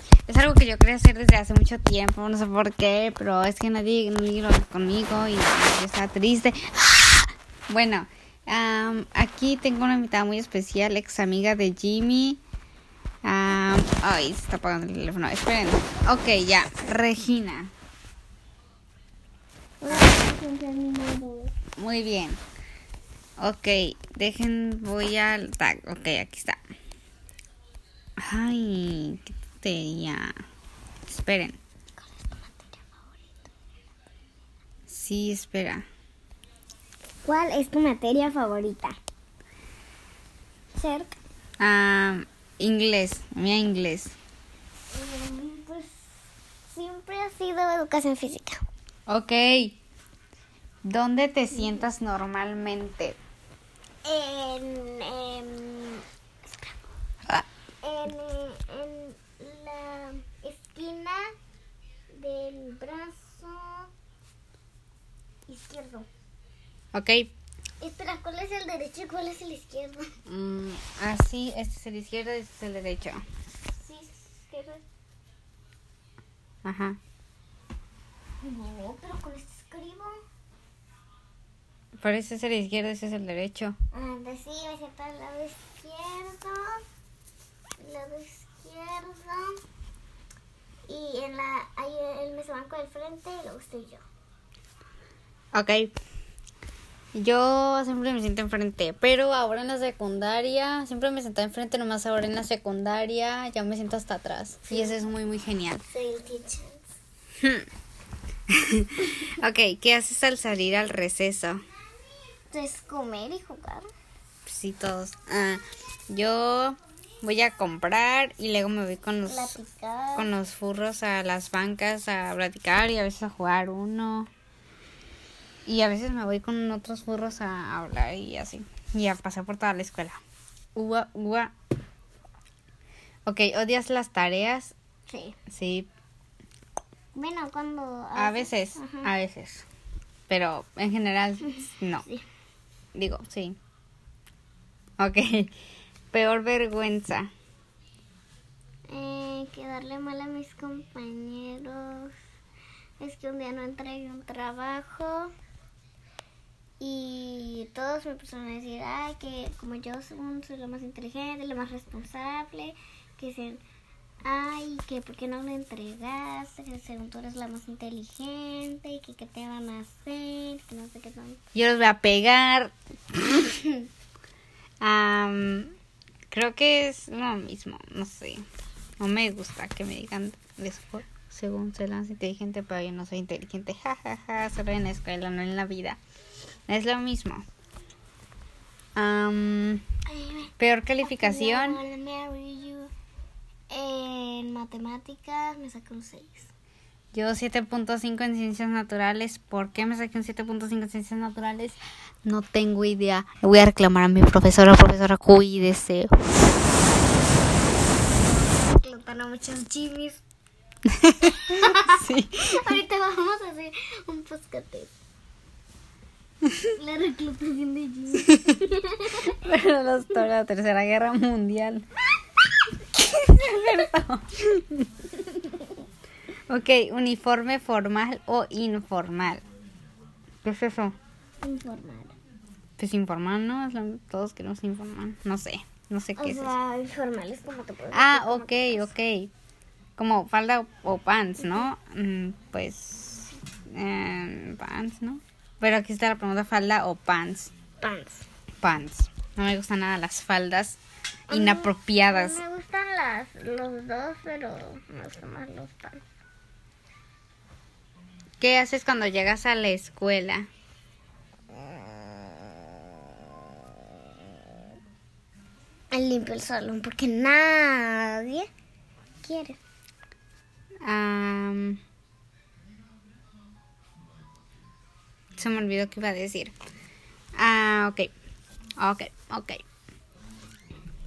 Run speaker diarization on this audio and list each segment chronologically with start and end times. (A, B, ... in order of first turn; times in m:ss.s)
0:00.3-0:12.4 A
0:13.2-0:17.7 A
0:19.8-0:21.5 B
0:21.8-0:22.4 A
0:23.4-0:26.6 A
0:28.2-0:30.4 A
0:31.1-0:31.6 A
0:32.0-0:33.5 B
0:34.9-0:35.8 A
0:37.2-0:39.0 B
0:40.7-0:41.2 B
0:41.6-0:44.1 A
0:44.9-0:46.1 B
0:46.7-0:48.6 B
0:49.1-0:49.8 A
0:50.8-0:53.2 A
0:54.0-0:56.8 B
0:57.8-1:01.2 B
1:02.2-1:03.9 B
1:05.5-1:06.1 B
1:06.9-1:07.3 A
1:07.8-1:10.1 B
1:10.3-1:13.2 A
1:13.8-1:14.8 B
1:16.6-1:17.0 A
1:18.4-1:20.2 B
1:22.0-1:23.8 A
1:23.9-1:26.8 B
1:27.8-1:29.5 B
1:30.9-1:34.0 B
1:35.5-1:35.9 A
1:37.1-1:45.8 A
1:44.7-1:45.0 B
1:45.9-1:46.8 B
1:47.4-1:47.6 A
1:48.5-1:51.6 A
1:52.5-1:53.9 B
1:54.4-1:59.6 A
1:59.2-2:00.3 B
2:00.2-2:04.3 A
2:05.6-2:10.2 A
2:10.8-2:11.5 A
2:13.2-2:14.7 A
2:15.1-2:15.4 B
2:15.5-2:15.9 A
2:17.1-2:19.1 B
2:18.2-2:19.6 A
2:20.3-2:22.0 A
2:21.4-2:22.2 B
2:22.9-2:23.6 A
2:25.0-2:25.5 A
2:26.1-2:27.3 A
2:28.9-2:32.1 B
2:33.0-2:35.3 B
2:36.8-2:43.6 B
2:44.2-2:51.4 B
2:51.5-2:53.5 A
2:54.8-2:55.7 A
2:56.3-2:58.4 A
2:59.0-3:06.0 A
3:06.7-3:07.4 A
3:09.0-3:09.8 A
3:10.1-3:12.9 B
3:10.6-3:11.8 A
3:13.7-3:16.5 B
3:17.1-3:26.2 A
3:27.2-3:30.2 B
3:30.9-3:32.8 A
3:31.2-3:34.9 B
3:36.8-3:39.3 B
3:38.3-3:38.6 A
3:39.2-3:41.8 A
3:43.0-3:44.8 A
3:46.5-3:49.4 A
3:50.4-3:51.0 A
3:51.4-3:52.1 B
3:52.8-3:56.5 A
3:56.2-3:58.9 B
3:57.9-3:59.3 A
4:00.0-4:07.5 A
4:07.8-4:08.2 B
4:08.6-4:12.4 A
4:11.3-4:16.0 B
4:18.4-4:20.5 A
4:21.5-4:23.4 B
4:25.9-4:28.5 B
4:29.2-4:29.6 B
4:30.8-4:31.8 A
4:35.4-4:36.5 A
4:37.4-4:38.1 A
4:38.8-4:39.6 A